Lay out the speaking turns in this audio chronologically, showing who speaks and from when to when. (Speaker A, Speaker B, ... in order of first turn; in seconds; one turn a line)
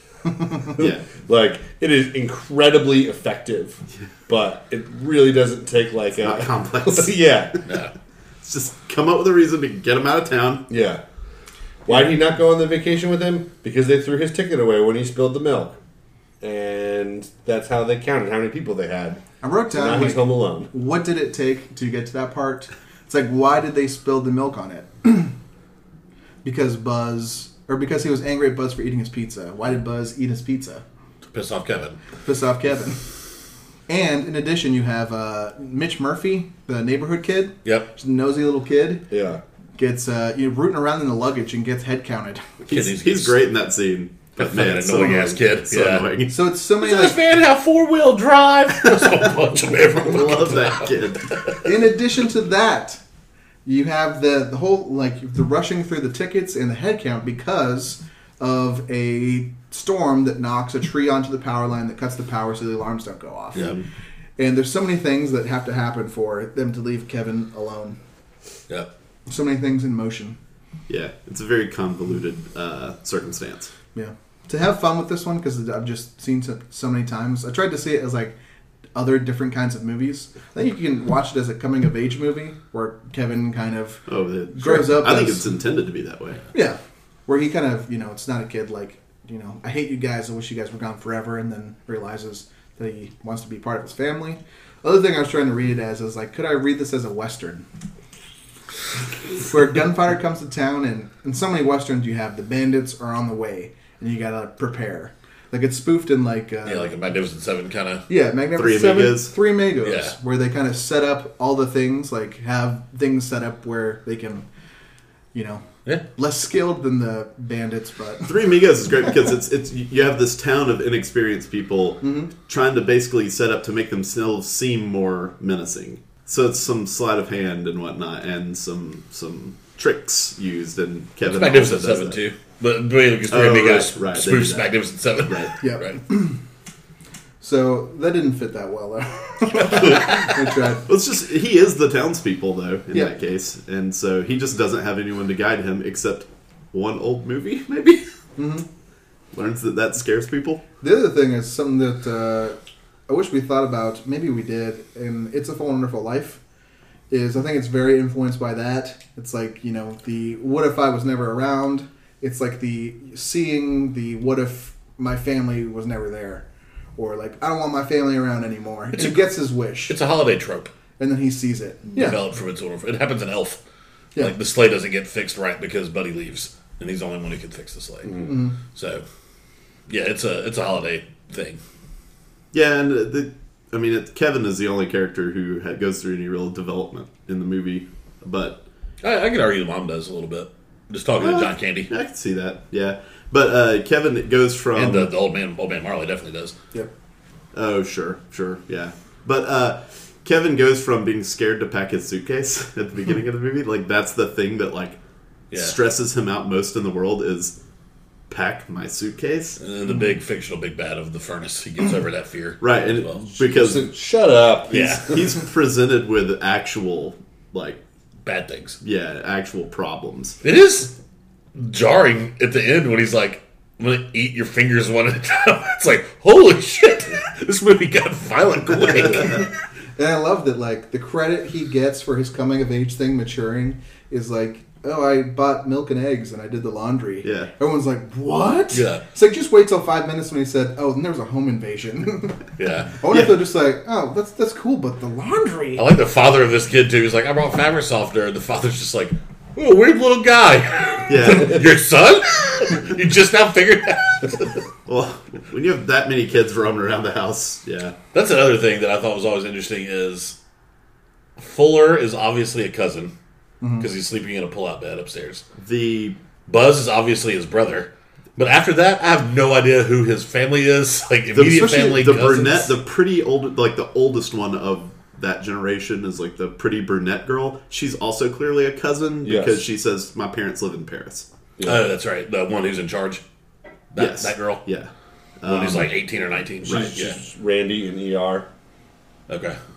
Speaker A: 0.7-7.6
Speaker B: 0.8-1.1
Speaker B: 6.2-7.6
Speaker C: 7.7-7.9
Speaker B: 8.4-10.7
Speaker A: 10.7-11.0
Speaker A: 11.8-15.8
Speaker A: 16.4-20.7
Speaker D: 19.4-25.3
Speaker D: 26.4-30.8
Speaker C: 31.3-32.0
Speaker D: 32.2-33.0
Speaker D: 33.9-39.0
Speaker C: 37.6-37.9
Speaker A: 39.1-39.4
Speaker D: 39.8-42.4
Speaker B: 42.7-46.4
Speaker C: 42.7-43.4
Speaker C: 44.4-46.2
Speaker D: 46.3-47.2
Speaker C: 46.8-51.6
Speaker B: 48.8-51.4
Speaker D: 51.6-53.0
Speaker D: 53.6-63.7
Speaker B: 63.5-63.8
Speaker D: 64.4-68.0
Speaker D: 69.3-70.4
Speaker B: 70.9-73.7
Speaker D: 73.9-78.3
Speaker D: 78.9-85.5
Speaker B: 84.1-86.5
Speaker D: 86.5-97.6
Speaker D: 99.4-107.0
Speaker C: 106.6-108.0
Speaker D: 108.1-114.5
Speaker B: 108.5-109.3
Speaker C: 109.8-110.1
Speaker D: 115.3-118.4
Speaker B: 118.2-132.2
Speaker D: 122.0-122.3
Speaker C: 131.2-136.0
Speaker B: 133.3-134.7
Speaker B: 135.3-135.5
Speaker D: 135.6-136.4
Speaker D: 137.4-140.9
Speaker B: 140.8-148.1
Speaker D: 148.4-148.7
Speaker B: 149.3-150.6
Speaker D: 150.8-156.4
Speaker D: 157.1-170.0
Speaker C: 168.9-169.2
Speaker C: 169.9-170.7
Speaker D: 171.0-172.2
Speaker C: 171.9-173.6
Speaker C: 174.2-178.1
Speaker A: 178.1-178.3
Speaker D: 178.2-178.6
Speaker C: 178.7-179.0
Speaker C: 179.9-181.6
Speaker B: 182.5-188.6
Speaker C: 189.0-191.9
Speaker B: 191.2-195.1
Speaker C: 194.7-196.6
Speaker B: 197.5-205.0
Speaker B: 205.5-207.6
Speaker C: 205.5-205.8
Speaker B: 208.3-209.6
Speaker C: 209.6-213.2
Speaker B: 212.6-213.9
Speaker A: 213.4-215.4
Speaker C: 214.7-215.1
Speaker B: 215.1-217.8
Speaker C: 218.2-218.8
Speaker B: 218.8-220.4
Speaker C: 220.4-220.9
Speaker C: 221.5-229.5
Speaker D: 230.0-242.4
Speaker B: 237.2-237.5
Speaker C: 238.7-239.0
Speaker C: 242.6-243.0
Speaker D: 243.0-245.8
Speaker B: 243.1-243.4
Speaker C: 245.8-254.6
Speaker B: 251.1-251.6
Speaker B: 254.9-257.9
Speaker C: 258.1-260.4
Speaker C: 261.4-263.1
Speaker D: 263.6-263.9
Speaker C: 263.8-265.4
Speaker B: 265.6-266.2
Speaker C: 266.5-272.7
Speaker B: 271.3-281.3
Speaker A: 279.2-279.7
Speaker A: 281.6-281.9
Speaker C: 281.6-283.2
Speaker C: 283.9-284.6
Speaker B: 283.9-285.9
Speaker C: 285.4-287.2
Speaker A: 286.6-288.5
Speaker C: 289.3-289.6